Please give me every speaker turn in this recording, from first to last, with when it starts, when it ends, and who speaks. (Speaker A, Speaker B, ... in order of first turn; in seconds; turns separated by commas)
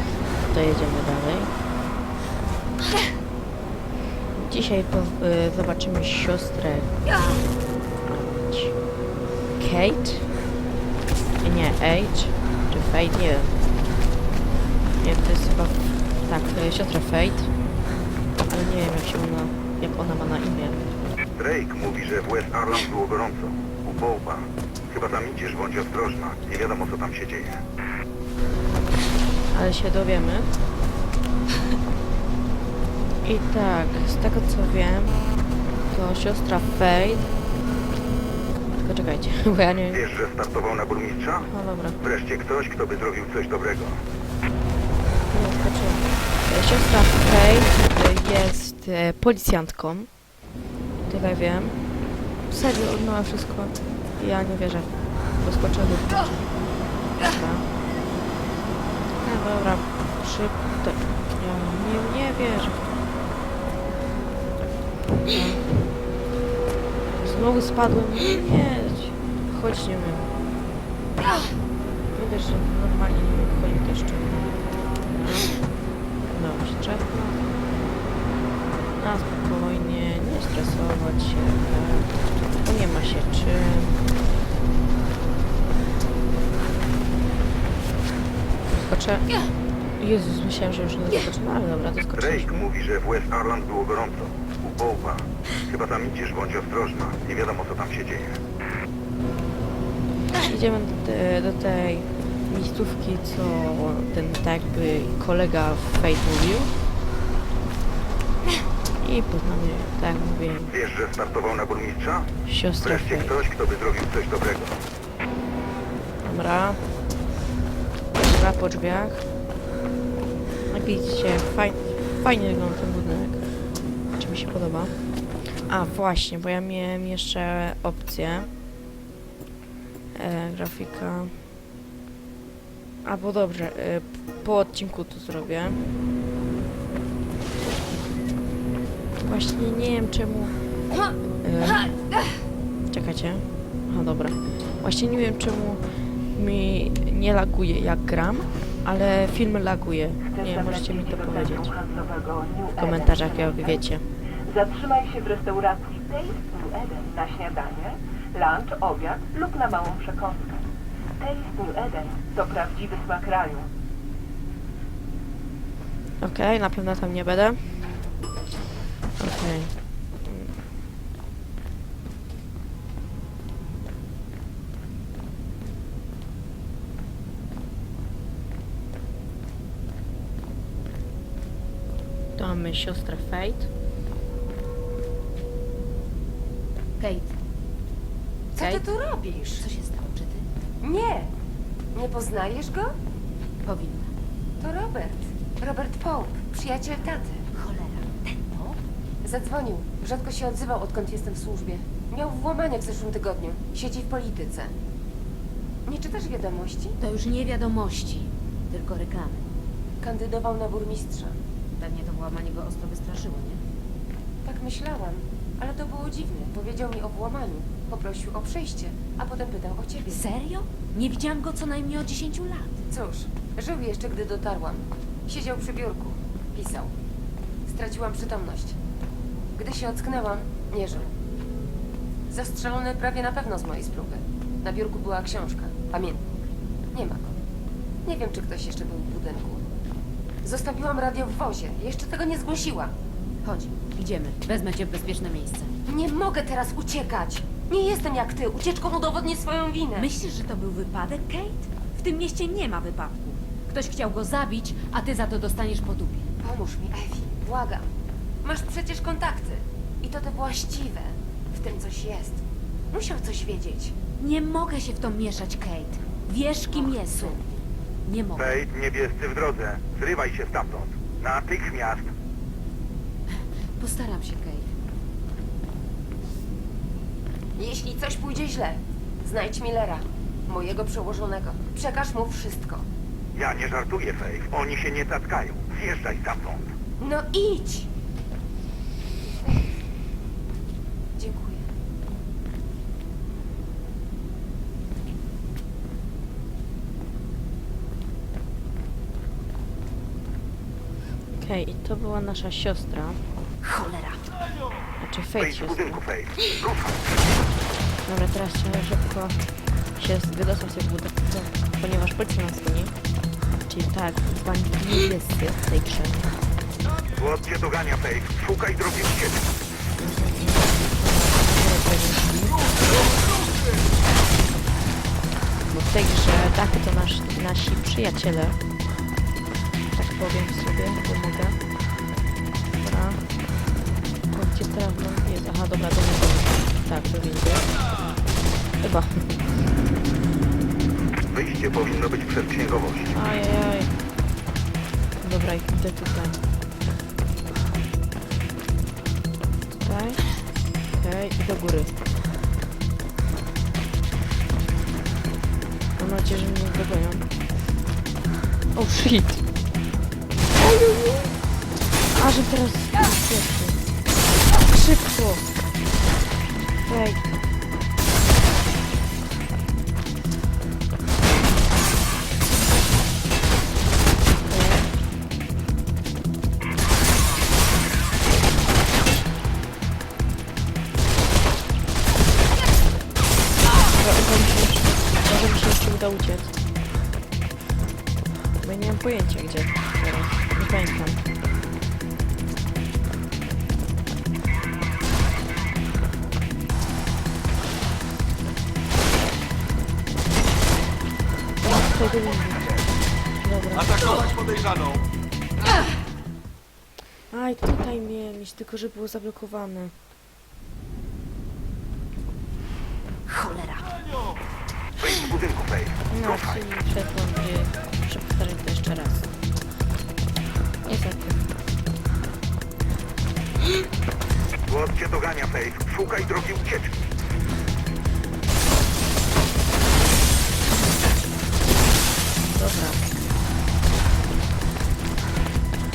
Speaker A: 0.4-1.5, Speaker A: 4.3-6.9, Speaker A: 8.0-8.8, Speaker A: 9.6-10.3, Speaker A: 11.4-13.6, Speaker A: 15.0-17.6, Speaker A: 18.4-21.0, Speaker B: 21.4-27.6, Speaker A: 29.5-30.6, Speaker A: 33.2-37.3, Speaker A: 38.7-40.0, Speaker B: 39.9-44.0, Speaker A: 41.5-42.0, Speaker A: 45.3-50.2, Speaker A: 51.0-56.6, Speaker A: 57.2-57.7, Speaker A: 59.2-62.9, Speaker A: 65.3-66.0, Speaker A: 67.2-70.3, Speaker A: 72.1-75.7, Speaker A: 76.3-77.5, Speaker A: 79.0-84.0, Speaker A: 88.7-92.7, Speaker B: 92.1-98.4, Speaker A: 100.4-106.8, Speaker A: 109.0-110.7, Speaker B: 110.7-114.8, Speaker A: 112.4-113.4, Speaker A: 116.2-116.9, Speaker A: 118.1-119.2, Speaker A: 120.7-123.5, Speaker A: 124.1-128.5, Speaker A: 130.1-131.5, Speaker A: 133.0-135.8, Speaker A: 139.2-140.6, Speaker A: 141.4-141.9, Speaker A: 142.9-151.7, Speaker C: 150.3-153.7, Speaker A: 152.7-154.1, Speaker C: 154.5-160.6, Speaker C: 161.2-163.7, Speaker A: 166.2-167.9, Speaker A: 169.2-170.6, Speaker A: 182.3-183.7, Speaker D: 187.0-187.3, Speaker E: 188.5-189.6, Speaker A: 188.6-188.8, Speaker D: 189.5-190.5, Speaker E: 190.8-191.3, Speaker E: 191.9-192.9, Speaker D: 193.6-194.1, Speaker E: 194.6-197.4, Speaker D: 197.5-198.8, Speaker E: 199.2-204.7, Speaker E: 205.8-206.9, Speaker D: 207.0-209.4, Speaker E: 210.0-211.4, Speaker D: 211.8-213.6, Speaker E: 214.4-220.2, Speaker D: 220.1-222.7, Speaker E: 222.9-226.9, Speaker E: 227.7-228.8, Speaker E: 229.6-231.1, Speaker E: 232.3-236.2, Speaker E: 236.9-237.3, Speaker E: 238.0-239.6, Speaker E: 240.4-242.9, Speaker D: 243.4-245.8, Speaker E: 245.9-250.1, Speaker D: 249.9-256.3, Speaker E: 256.4-257.9, Speaker E: 258.4-262.4, Speaker E: 262.9-263.9, Speaker D: 264.2-267.4, Speaker E: 266.7-267.4, Speaker D: 268.1-268.5, Speaker B: 268.4-272.1, Speaker D: 273.8-274.7, Speaker E: 277.6-282.8, Speaker B: 283.3-286.7, Speaker E: 287.0-287.9, Speaker E: 291.2-291.7, Speaker A: 301.3-303.2, Speaker D: 303.6-304.4, Speaker A: 305.0-306.0, Speaker B: 305.4-307.1, Speaker A: 308.0-312.9, Speaker A: 313.7-316.3, Speaker B: 317.1-319.5, Speaker A: 320.0-322.7, Speaker A: 325.7-328.6, Speaker A: 329.9-331.6, Speaker A: 332.8-333.2, Speaker A: 334.3-337.7, Speaker A: 338.8-339.5, Speaker B: 341.3-343.1, Speaker A: 343.1-343.9, Speaker A: 345.2-346.4, Speaker A: 349.7-350.3, Speaker A: 350.9-351.9, Speaker A: 355.9-357.3, Speaker A: 358.7-359.4, Speaker A: 360.6-361.3, Speaker A: 362.0-363.8, Speaker A: 364.5-365.5, Speaker A: 366.8-367.4, Speaker A: 374.4-375.0, Speaker A: 383.9-386.6, Speaker A: 388.6-391.3, Speaker A: 401.6-402.8, Speaker A: 403.3-404.1, Speaker A: 407.3-409.9, Speaker D: 413.3-414.0, Speaker B: 415.0-416.6, Speaker A: 416.1-419.3, Speaker A: 420.8-421.5, Speaker B: 424.7-427.0, Speaker A: 432.4-433.1